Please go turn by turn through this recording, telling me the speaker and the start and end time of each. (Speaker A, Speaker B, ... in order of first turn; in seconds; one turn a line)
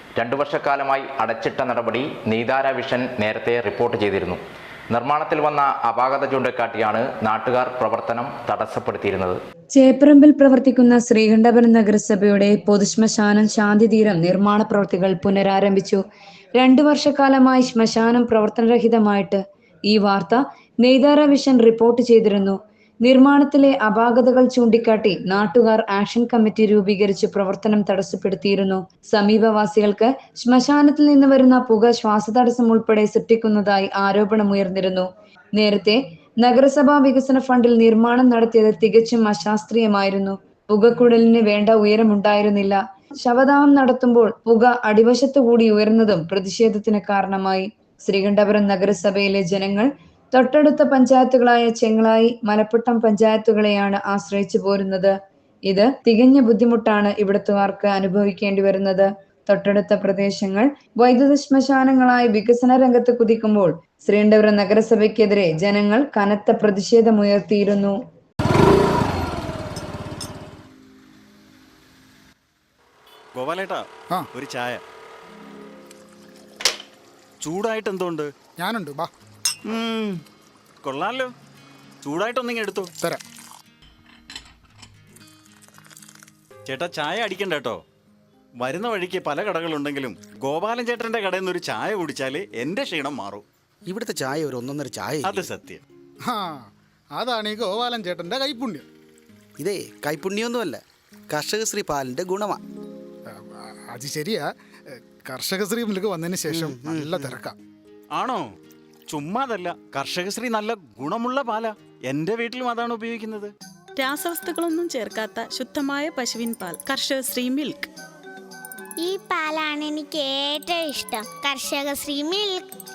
Speaker A: 0.2-4.4
Speaker A: 4.9-9.4
Speaker B: 9.7-16.0
Speaker B: 16.6-55.1
Speaker B: 55.7-68.0
Speaker C: 73.3-73.8
Speaker C: 74.3-74.8
Speaker C: 77.4-78.3
Speaker D: 78.6-79.1
Speaker C: 79.7-80.2
Speaker C: 80.8-81.3
Speaker C: 82.0-82.9
Speaker C: 86.7-87.8
Speaker C: 88.6-93.4
Speaker E: 93.9-95.5
Speaker C: 95.2-95.8
Speaker D: 96.3-98.9
Speaker E: 99.6-102.6
Speaker D: 103.3-107.6
Speaker E: 106.5-107.4
Speaker C: 108.2-108.4
Speaker C: 109.1-113.5
Speaker F: 114.0-117.9
Speaker G: 119.0-122.7